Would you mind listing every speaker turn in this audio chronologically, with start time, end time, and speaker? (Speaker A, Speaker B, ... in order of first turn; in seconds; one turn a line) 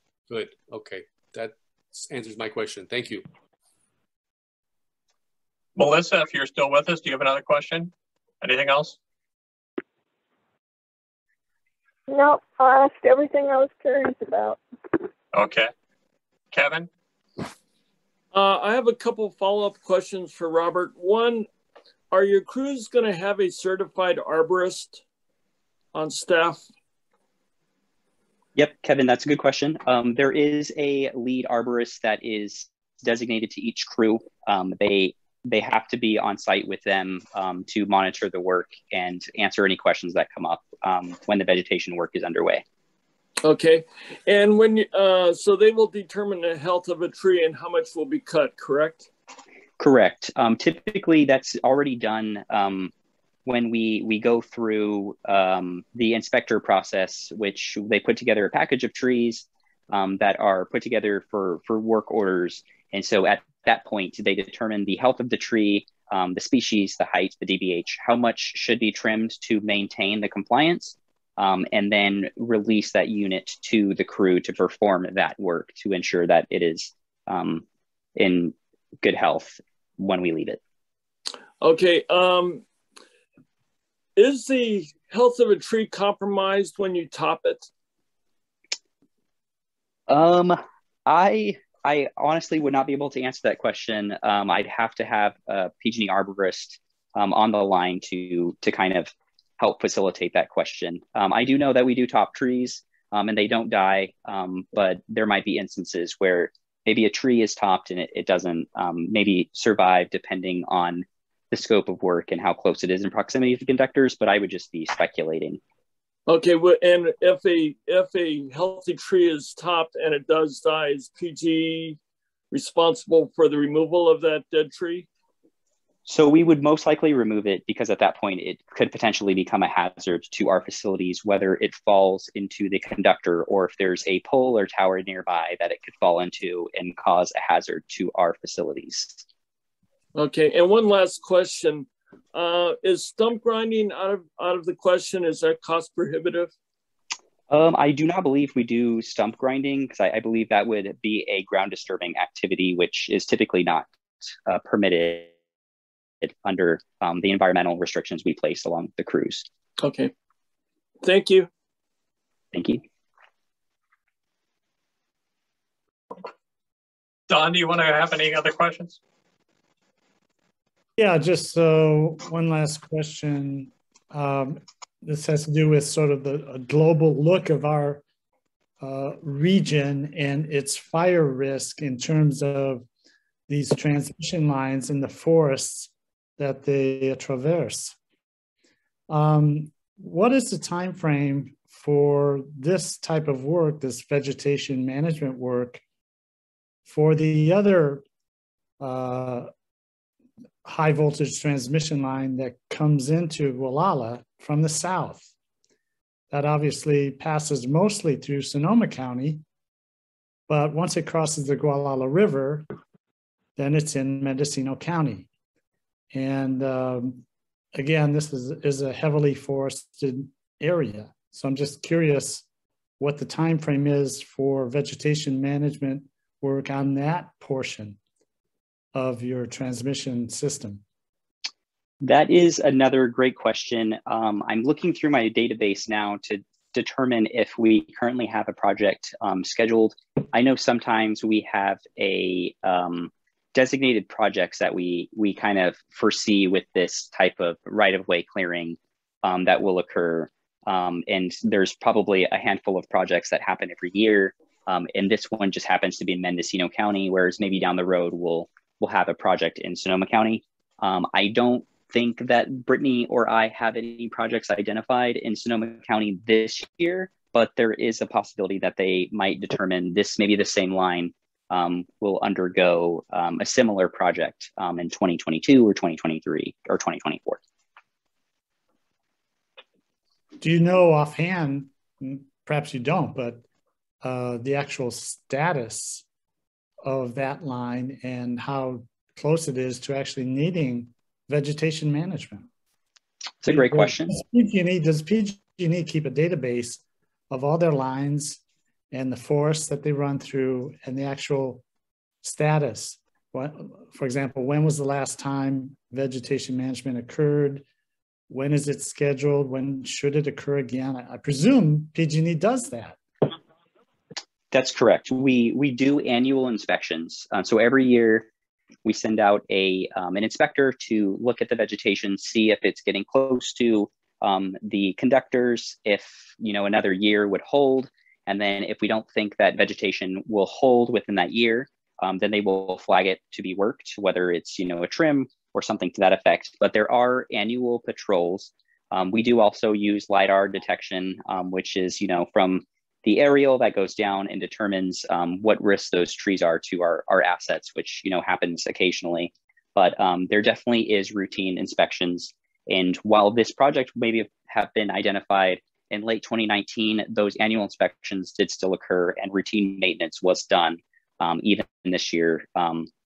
Speaker A: 0.3-3.2
Speaker B: 5.8-9.0
Speaker C: 12.1-14.6
Speaker B: 15.3-15.7
Speaker B: 16.5-16.9
Speaker D: 18.3-21.5
Speaker D: 22.1-25.0
Speaker D: 25.9-26.7
Speaker E: 28.6-42.6
Speaker D: 43.4-49.1
Speaker E: 49.8-52.9
Speaker E: 53.5-77.7
Speaker E: 78.2-80.6
Speaker D: 81.6-82.7
Speaker D: 84.2-87.7
Speaker E: 90.1-115.6
Speaker D: 116.3-122.0
Speaker D: 122.5-125.1
Speaker E: 126.1-139.2
Speaker D: 140.2-146.5
Speaker E: 147.5-155.3
Speaker E: 156.2-159.5
Speaker D: 159.8-160.1
Speaker D: 161.0-161.5
Speaker E: 162.5-162.8
Speaker B: 167.3-169.0
Speaker F: 171.0-178.0
Speaker F: 178.8-182.9
Speaker F: 183.5-188.0
Speaker F: 189.1-195.8
Speaker F: 196.9-198.0
Speaker F: 198.8-199.5
Speaker F: 200.7-205.3
Speaker F: 206.3-209.4
Speaker F: 210.5-212.7
Speaker F: 213.6-215.3
Speaker F: 216.1-217.2
Speaker F: 217.8-222.4
Speaker F: 223.0-228.0
Speaker F: 228.9-230.8
Speaker E: 232.0-277.4
Speaker F: 280.4-283.4
Speaker F: 284.0-286.0
Speaker F: 286.8-292.5
Speaker E: 293.4-294.2
Speaker F: 293.5-298.4
Speaker F: 298.9-301.6
Speaker F: 302.2-307.6
Speaker F: 308.3-313.0
Speaker E: 314.5-318.3
Speaker E: 318.9-362.9